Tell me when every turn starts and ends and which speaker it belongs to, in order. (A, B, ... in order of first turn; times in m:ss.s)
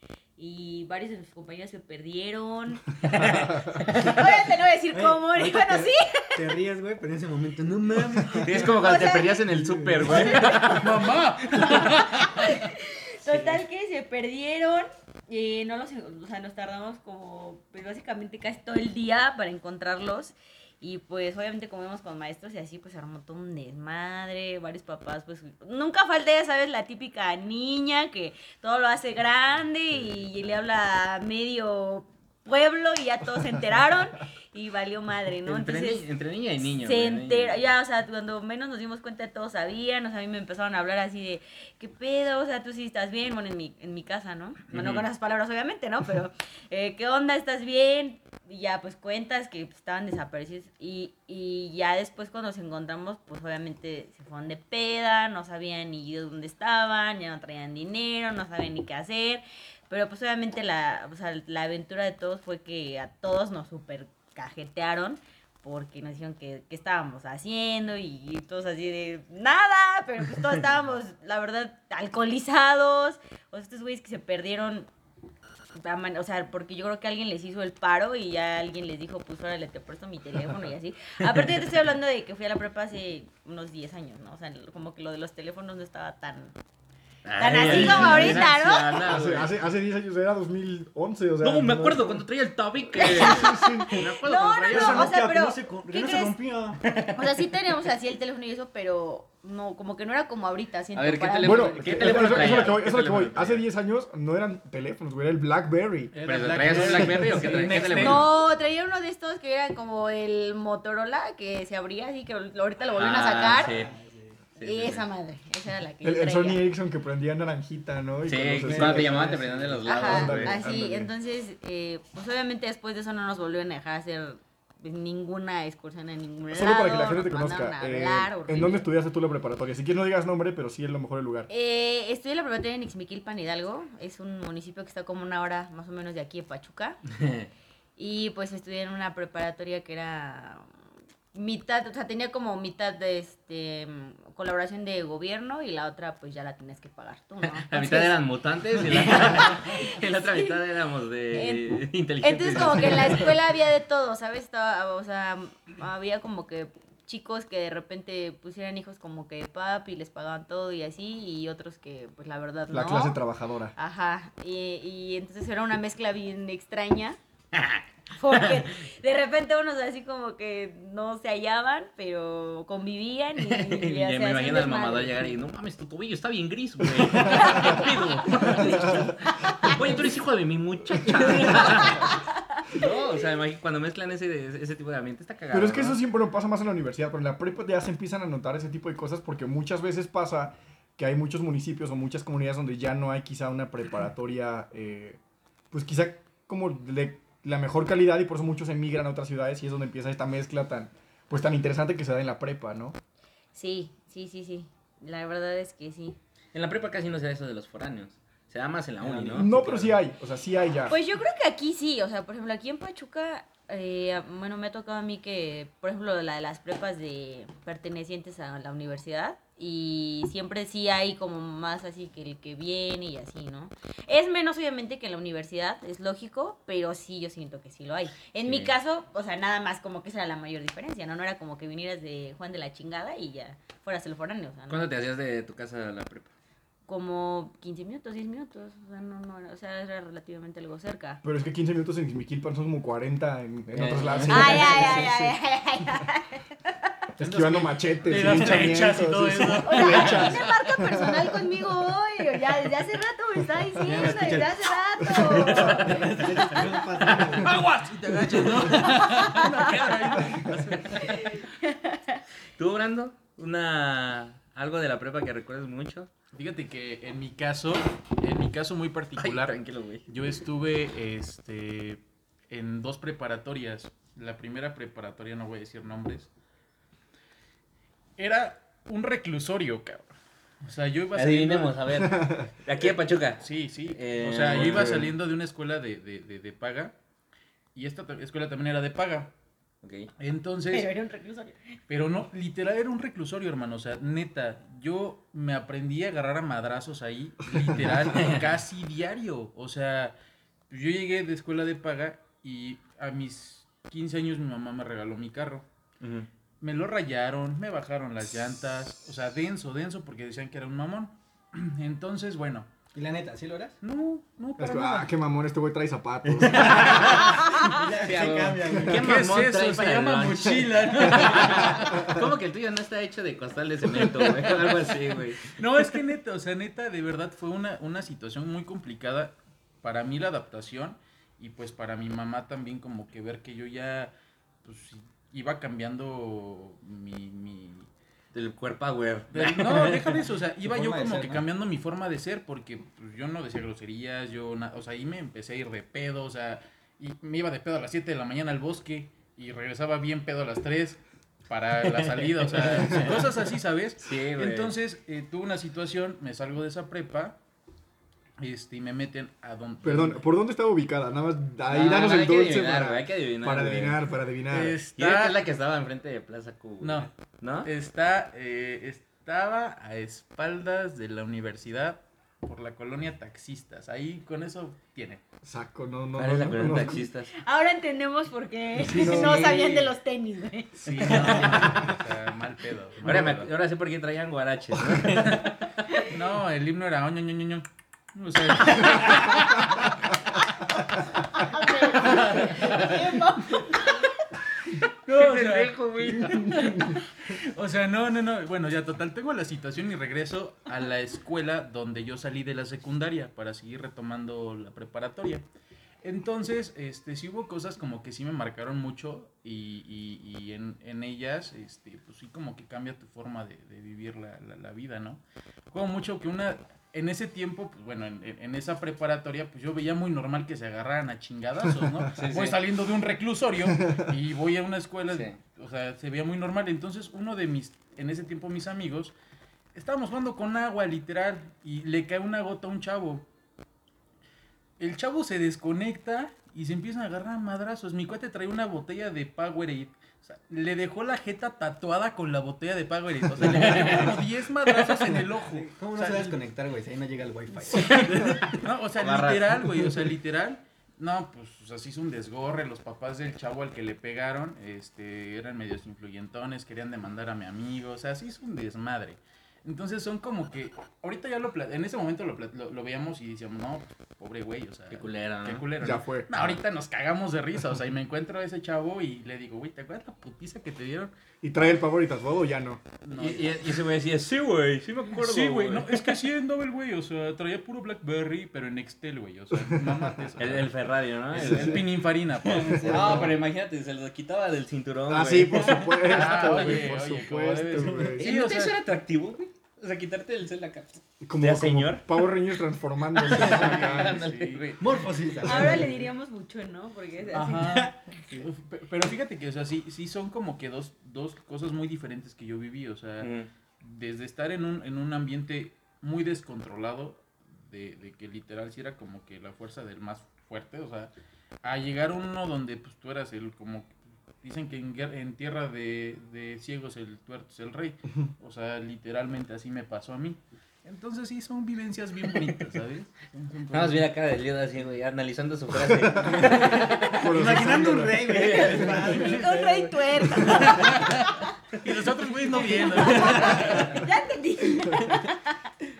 0:00.4-0:06.4 A
0:03.0-0:04.4 B
0:04.9-0:08.8 C
0:08.4-0:12.0 B
0:08.5-0:09.4 A
0:09.5-0:10.3 C
0:10.0-0:11.0 A
0:10.1-0:12.7 D
0:11.6-0:36.0 A
0:35.4-0:37.6 B
0:36.8-1:14.9 A
0:44.7-0:45.1 B
1:15.7-1:26.6 A
1:27.2-1:29.5 B
1:27.4-1:29.1 A
1:27.6-1:32.2 E
1:31.4-1:35.1 B
1:33.0-1:36.4 A
1:33.0-1:33.9 E
1:34.7-1:36.9 C
1:36.8-1:37.2 B
1:37.1-1:42.7 A
1:40.9-1:43.6 B
1:41.4-1:46.1 E
1:46.1-1:48.3 D
1:46.2-1:48.3 B
1:47.7-1:53.8 A
1:53.0-1:53.9 B
1:53.6-1:54.4 C
1:54.6-1:55.0 B
1:54.6-1:56.6 A
1:56.0-1:59.4 E
1:58.2-2:00.6 B
1:58.6-2:00.0 C
1:59.8-2:08.8 A
2:00.0-2:01.1 E
2:06.5-2:11.5 E
2:11.5-2:17.0 A
2:17.2-2:17.5 B
2:18.0-2:20.6 A
2:21.3-2:28.1 A
2:27.5-2:33.3 B
2:28.8-2:30.5 A
2:31.3-2:43.2 A
2:42.7-2:43.7 E
2:43.8-2:47.2 A
2:47.5-2:48.6 B
2:48.1-2:55.4 A
2:53.4-3:06.0 B
2:57.2-3:00.0 A
2:57.3-2:57.8 E
3:01.2-3:02.9 A
3:05.5-3:15.2 E
3:15.7-3:23.0 E
3:23.5-3:26.2 A
3:26.5-3:30.0 B
3:29.1-3:29.4 C
3:29.1-3:31.0 E
3:30.9-3:54.8 A
3:48.4-3:48.7 B
3:54.7-3:56.3 B
3:56.9-4:01.2 A
4:01.2-4:05.4 E
4:03.7-4:04.8 B
4:04.3-4:06.9 A
4:07.2-4:11.4 E
4:07.2-4:08.7 C
4:08.1-4:10.4 D
4:09.6-4:16.8 A
4:13.8-4:14.6 C
4:15.0-4:15.7 E
4:15.2-4:16.4 B
4:15.2-4:19.1 C
4:17.2-4:21.2 D
4:19.2-4:19.7 A
4:20.3-4:21.4 B
4:21.0-4:22.2 A
4:22.6-4:26.1 B
4:26.3-4:29.5 D
4:29.2-4:30.0 B
4:30.1-4:36.3 D
4:38.2-4:40.1 D
4:40.6-4:42.0 D
4:41.1-4:45.1 B
4:42.1-4:42.4 E
4:42.8-4:46.9 D
4:47.7-4:49.3 D
4:49.8-4:50.1 B
4:50.2-4:50.9 D
4:50.7-4:51.7 A
4:51.9-5:00.1 D
4:58.2-4:58.4 B
5:00.7-5:05.6 D
5:06.0-5:06.3 B
5:06.6-5:12.7 D
5:12.9-5:13.8 C
5:13.8-5:15.1 D
5:14.6-5:16.8 E
5:16.5-5:19.1 C
5:16.6-5:25.6 B
5:16.7-5:17.3 D
5:18.9-5:22.2 D
5:23.9-5:24.9 D
5:25.4-5:37.9 D
5:38.3-5:40.2 B
5:39.3-5:57.4 D
5:40.6-5:41.4 C
5:52.0-5:53.3 B
5:54.0-5:54.7 B
5:58.4-6:00.2 D
5:59.8-6:04.8 E
6:01.7-6:04.0 B
6:04.5-6:05.4 D
6:05.0-6:07.7 B
6:06.8-6:07.1 D
6:07.6-6:15.2 D
6:15.4-6:17.1 E
6:16.2-6:17.3 B
6:17.4-6:21.6 A
6:18.8-6:19.5 E
6:18.9-6:19.9 D
6:20.8-6:23.5 D
6:20.9-6:21.9 B
6:23.0-6:26.0 B
6:24.8-6:30.1 D
6:28.6-6:29.3 B
6:31.3-6:34.4 A
6:32.0-6:33.1 B
6:35.0-6:45.4 D
6:35.1-6:37.0 B
6:46.0-7:09.1 D
7:02.1-7:02.6 B
7:05.1-7:05.3 B
7:09.7-7:13.3 D
7:14.8-7:26.4 D
7:23.5-7:24.1 B
7:25.2-7:28.4 C
7:27.7-7:29.5 B
7:28.0-7:51.1 D
7:44.9-7:45.7 B
7:45.8-7:46.5 E
7:51.4-7:52.8 E
7:53.0-7:53.8 D
7:53.1-7:56.0 B
7:55.1-8:00.7 D
8:00.4-8:01.9 B
8:01.3-8:03.4 D
8:01.4-8:01.8 E
8:02.4-8:06.8 B
8:02.6-8:03.3 E
8:05.1-8:08.2 E
8:06.0-8:08.8 D
8:08.2-8:12.2 B
8:11.2-8:14.2 E
8:13.2-8:14.8 D
8:13.3-8:14.8 B
8:14.8-8:16.0 C
8:15.4-8:17.8 A
8:17.3-8:23.3 D
8:17.7-8:17.9 C
8:23.2-8:23.5 B
8:23.8-8:31.1 D
8:31.6-8:44.1 D
8:43.7-8:47.5 B
8:45.9-8:48.6 E
8:46.4-8:51.0 C
8:48.3-8:49.1 B
8:48.8-8:51.5 A
8:50.5-8:54.1 D
8:52.8-8:55.6 A
8:52.8-8:53.8 C